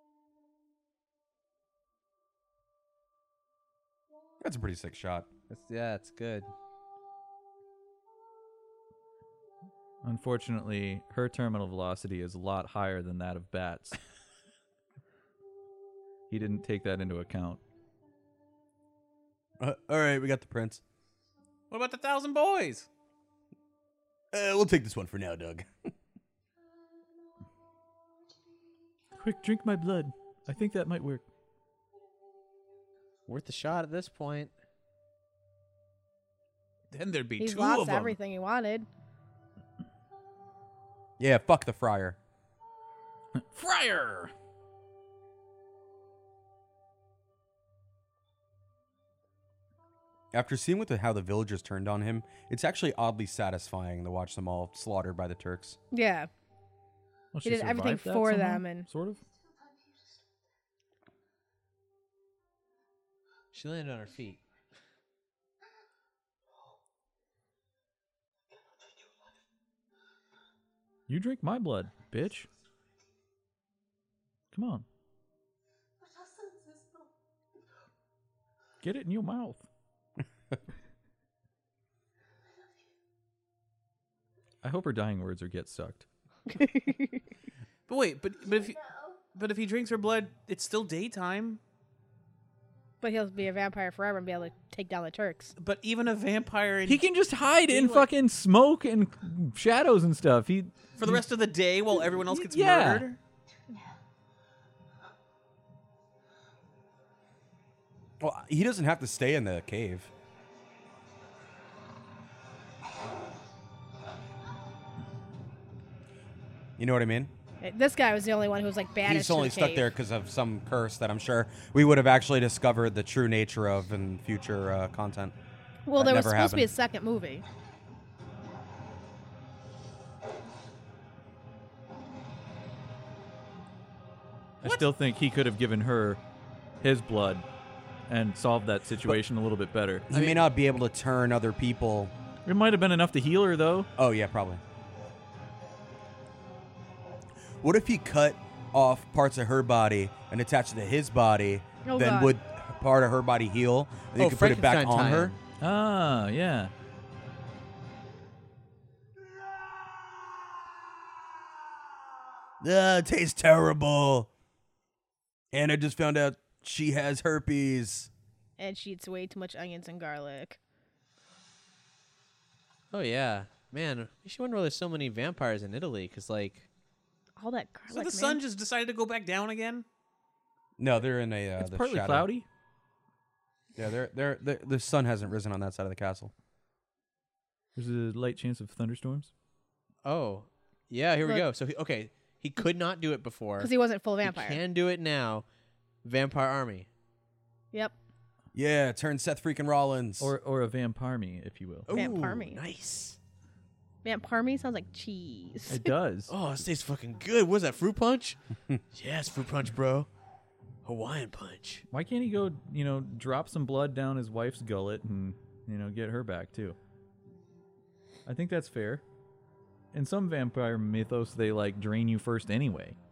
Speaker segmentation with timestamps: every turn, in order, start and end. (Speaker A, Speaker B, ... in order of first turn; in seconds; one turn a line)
Speaker A: 4.4-5.3
Speaker B: 5.5-6.5
Speaker C: 10.0-14.0
Speaker C: 16.3-17.6
Speaker A: 19.6-20.8
Speaker D: 21.7-22.9
Speaker A: 24.3-25.7
Speaker C: 29.1-31.2
Speaker B: 33.3-34.5
Speaker D: 36.9-38.2
Speaker E: 37.4-38.9
Speaker A: 41.2-42.2
Speaker C: 43.4-44.3
Speaker A: 50.3-55.8
Speaker E: 55.9-56.3
Speaker C: 57.3-59.2
Speaker E: 57.4-58.9
Speaker F: 59.1-60.4
Speaker B: 63.5-64.4
Speaker C: 71.1-72.5
Speaker C: 74.5-74.9
Speaker F: 76.0-77.1
Speaker C: 78.8-79.7
Speaker F: 82.5-82.9
Speaker C: 84.6-86.1
Speaker E: 86.5-87.1
Speaker D: 87.9-88.8
Speaker F: 88.4-89.3
Speaker D: 89.3-91.6
Speaker E: 93.0-95.5
Speaker D: 95.6-97.1
Speaker C: 96.9-101.3
Speaker D: 97.7-98.1
Speaker D: 101.0-103.2
Speaker C: 102.1-103.1
Speaker F: 103.5-104.0
Speaker A: 108.2-110.1
Speaker A: 116.8-117.3
Speaker E: 117.6-119.9
Speaker A: 119.0-125.3
Speaker E: 125.9-127.5
Speaker A: 126.0-126.7
Speaker C: 134.6-136.2
Speaker C: 136.8-137.4
Speaker C: 138.1-140.1
Speaker A: 140.1-142.1
Speaker C: 142.4-143.9
Speaker A: 144.0-144.6
Speaker A: 147.6-155.4
Speaker E: 151.8-152.4
Speaker B: 154.2-155.4
Speaker C: 155.6-156.7
Speaker A: 162.6-164.3
Speaker A: 165.5-168.1
Speaker E: 168.6-170.6
Speaker B: 172.9-176.7
Speaker E: 177.4-178.4
Speaker D: 177.9-179.9
Speaker A: 180.8-182.3
Speaker C: 181.6-182.4
Speaker A: 183.8-186.3
Speaker C: 187.7-189.3
Speaker B: 190.1-193.7
Speaker E: 191.2-191.5
Speaker E: 193.6-194.6
Speaker B: 194.2-195.4
Speaker B: 196.0-196.9
Speaker A: 198.5-200.3
Speaker C: 200.2-202.1
Speaker B: 201.9-203.2
Speaker E: 201.9-202.6
Speaker E: 204.0-205.9
Speaker C: 205.7-206.3
Speaker B: 206.3-208.4
Speaker B: 208.9-210.1
Speaker B: 210.8-211.8
Speaker C: 211.9-216.8
Speaker C: 218.3-219.0
Speaker C: 219.9-223.0